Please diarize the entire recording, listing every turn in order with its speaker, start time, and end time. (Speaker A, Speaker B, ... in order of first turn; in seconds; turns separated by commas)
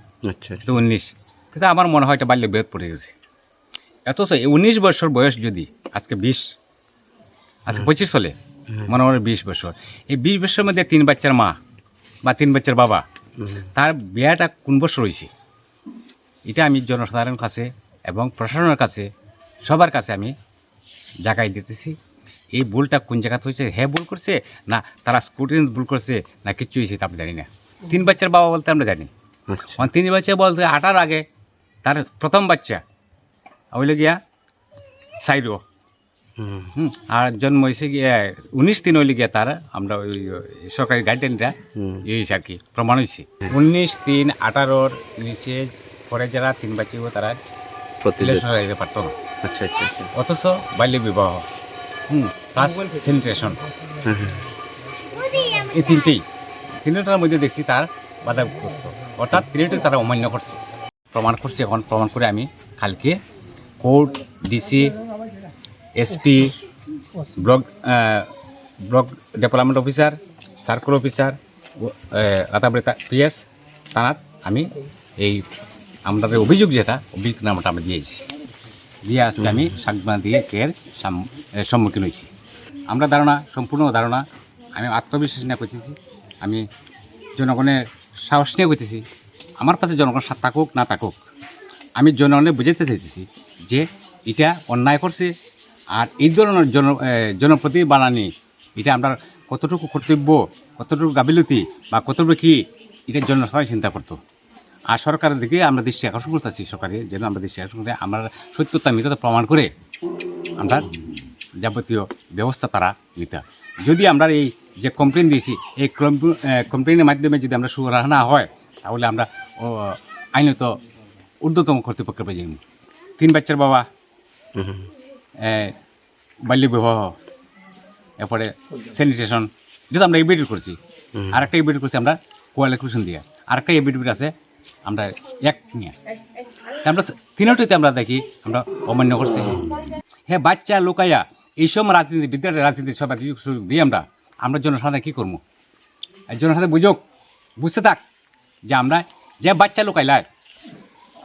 Speaker A: 0.2-0.7, Speaker B: 0.6-3.1, Speaker B: 4.1-6.4, Speaker B: 7.7-8.3, Speaker B: 8.8-11.6, Speaker B: 12.2-13.0, Speaker A: 13.4-13.7, Speaker B: 13.7-15.3, Speaker B: 16.5-19.1, Speaker B: 19.6-20.3, Speaker B: 21.2-21.9, Speaker B: 22.5-29.1, Speaker A: 29.5-29.9, Speaker B: 29.7-31.2, Speaker B: 31.8-32.8, Speaker B: 33.7-34.2, Speaker B: 35.2-35.6, Speaker A: 36.4-36.7, Speaker B: 36.8-47.4, Speaker A: 41.7-42.0, Speaker A: 48.0-48.5, Speaker B: 48.2-49.1, Speaker A: 49.4-50.1, Speaker B: 50.1-51.4, Speaker B: 52.1-53.6, Speaker A: 54.0-54.4, Speaker B: 55.2-56.2, Speaker B: 56.8-60.6, Speaker B: 61.1-63.2, Speaker B: 63.8-64.9, Speaker B: 66.0-66.5, Speaker B: 67.4-68.3, Speaker B: 68.9-73.4, Speaker B: 73.9-75.4, Speaker B: 76.0-78.2, Speaker B: 79.0-82.3, Speaker B: 82.9-84.2, Speaker B: 84.8-86.6, Speaker B: 87.4-89.0, Speaker B: 89.6-91.1, Speaker B: 92.0-95.3, Speaker B: 96.0-104.2, Speaker B: 104.9-109.7, Speaker B: 110.6-110.8, Speaker B: 111.6-120.7, Speaker B: 121.4-122.6, Speaker B: 123.2-123.8, Speaker A: 124.5-124.8, Speaker B: 125.4-125.7, Speaker B: 126.5-127.1, Speaker B: 128.2-130.8, Speaker A: 131.1-131.5, Speaker B: 131.3-134.3, Speaker B: 134.9-135.9, Speaker B: 136.8-139.8, Speaker B: 140.3-145.4, Speaker B: 146.3-147.0, Speaker B: 147.6-148.0, Speaker B: 148.7-150.2